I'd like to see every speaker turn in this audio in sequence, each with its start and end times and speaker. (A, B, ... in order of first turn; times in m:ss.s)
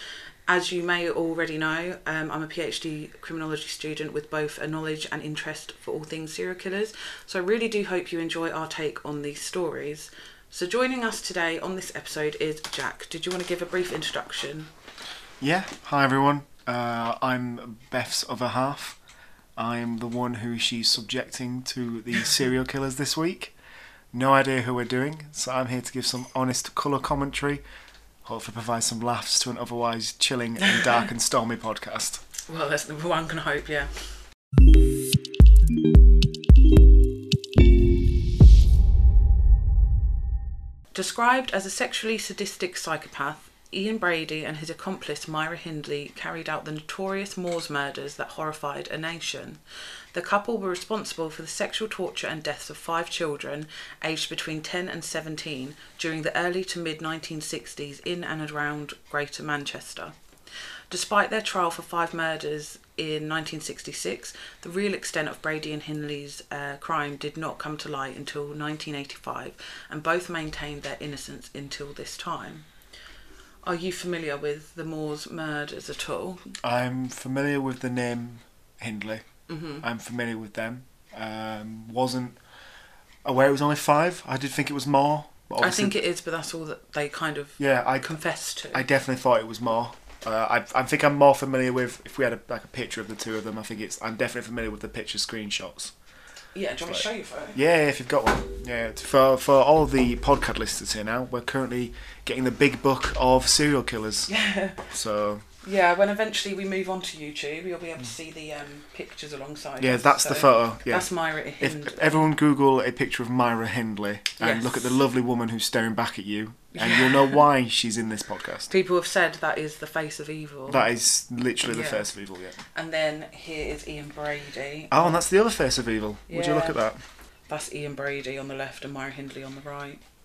0:00.5-0:14.7 A
0:15.4-0:19.0 B
0:19.6-0:23.5 B
0:24.1-0:27.6 B
0:28.2-0:32.2 B
0:32.5-0:33.9 A
0:40.9-0:49.6 A
0:50.1-1:00.2 A
1:00.9-1:12.7 A
1:13.6-1:16.5 A
1:16.6-1:19.2 B
1:19.5-1:19.8 A
1:19.8-1:22.4 B
1:23.2-1:26.0 B
1:25.6-1:28.9 A
1:27.6-1:28.1 B
1:28.7-1:35.9 B
1:36.6-1:37.6 A
1:36.9-1:44.3 B
1:44.3-1:44.9 A
1:44.9-1:45.4 B
1:45.6-1:52.3 A
1:49.8-1:51.1 B
1:51.6-1:58.7 B
1:54.4-1:55.0 A
1:56.7-1:57.4 A
1:58.7-2:00.9 A
2:00.7-2:02.6 B
2:01.6-2:02.1 A
2:02.7-2:05.2 A
2:04.9-2:07.0 B
2:06.3-2:06.8 A
2:07.5-2:10.0 A